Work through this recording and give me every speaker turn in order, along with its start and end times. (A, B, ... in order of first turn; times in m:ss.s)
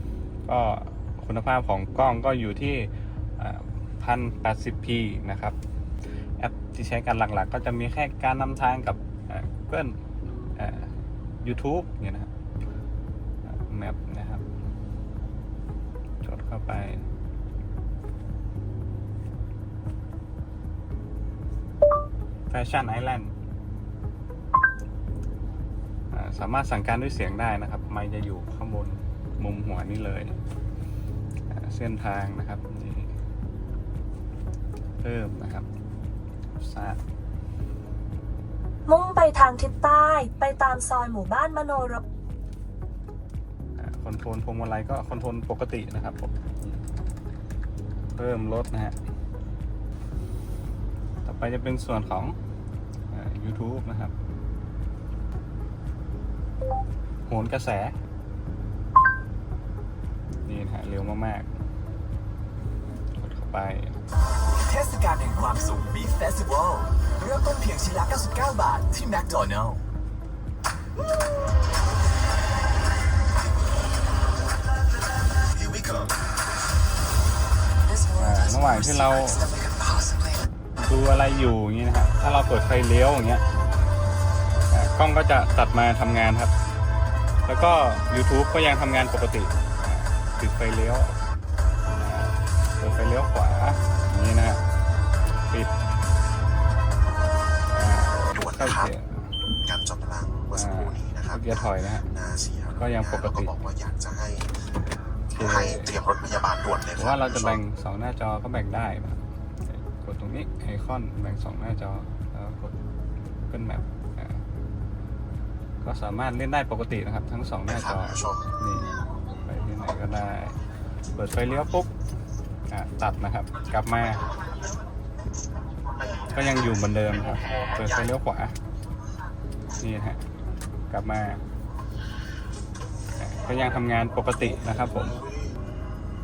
0:00.5-0:05.6 A
0:06.4-0:10.0 A
0:10.6-0:10.9 A
0:11.4-0:12.3 A
0:13.4-0:14.4 A
0:16.2-0:17.0 A
0:22.5-0:23.3 A
0:26.1-0:30.4 A
0:31.5-0:33.1 A
0:35.0-0:35.7 A
0:36.6-0:37.0 A
0:38.9-0:42.0 B
0:43.8-0:46.8 A
0:48.2-0:49.0 A
0:51.2-0:52.4 A
0:53.1-0:54.1 A
0:57.3-0:58.0 A
1:00.5-1:01.5 A
1:03.2-1:04.0 A
1:04.6-1:09.8 C
1:15.6-1:16.0 C
1:17.9-1:20.4 C
1:18.2-1:19.5 A
1:20.8-1:23.4 A
1:24.7-1:26.5 A
1:27.5-1:31.2 A
1:32.0-1:34.6 A
1:37.7-1:39.2 A
1:38.3-1:38.9 D
1:39.6-1:44.5 D
1:40.5-1:42.1 A
1:42.8-1:43.6 A
1:45.3-1:47.6 D
1:45.3-1:46.0 A
1:47.0-1:52.8 A
1:53.5-1:54.4 A
1:55.8-2:00.6 A
1:57.7-1:58.5 D
2:01.2-2:01.9 A
2:02.7-2:04.2 A
2:06.3-2:08.6 A
2:09.8-2:10.2 A
2:10.9-2:11.4 A
2:13.2-2:15.2 A